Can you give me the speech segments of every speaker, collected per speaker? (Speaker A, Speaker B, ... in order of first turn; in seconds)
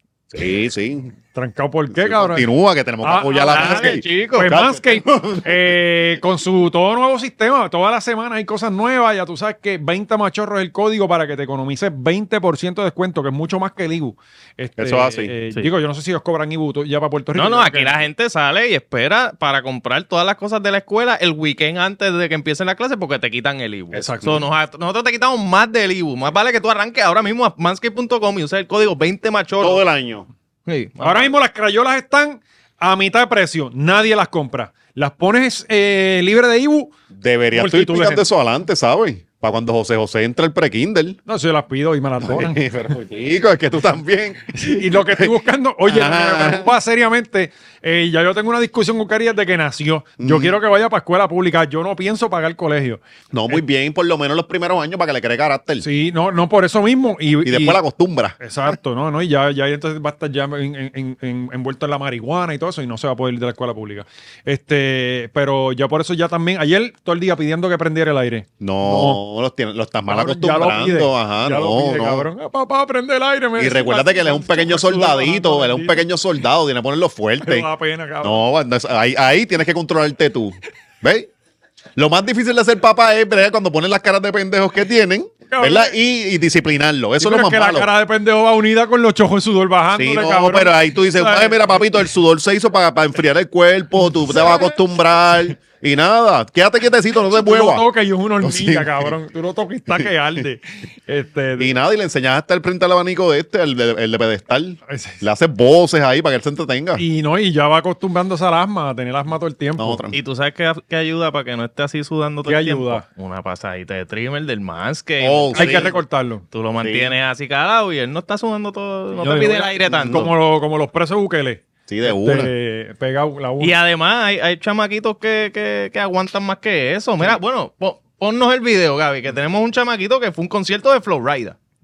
Speaker A: 0.3-1.1, 1.9-5.9, 14.8-15.3, 29.6-30.3, 37.1-41.2, 42.2-46.7, 50.2-50.6, 53.3-55.9, 57.4-58.4, 68.6-72.3, 73.6-77.7, 78.2-81.3, 82.0-87.9, 89.9-97.8, 98.4-99.1, 101.6-107.0, 109.8-110.2, 115.2-115.9, 116.8-117.1, 119.9-120.3, 121.9-122.5
Speaker B: 1.3-2.5, 3.0-17.9, 23.9-24.4, 31.0-36.9, 37.5-38.2, 41.3-43.0, 44.5-53.6, 55.8-57.8, 58.4-69.2, 70.1-76.1, 77.4-78.4, 85.5-86.0, 87.2-91.9, 97.3-101.7, 104.9-105.2, 107.0-110.0, 112.4-113.0, 115.5-116.4, 119.2-123.7
Speaker C: 3.5-4.5, 17.3-29.8, 30.7-31.3, 110.1-120.3, 123.6-131.6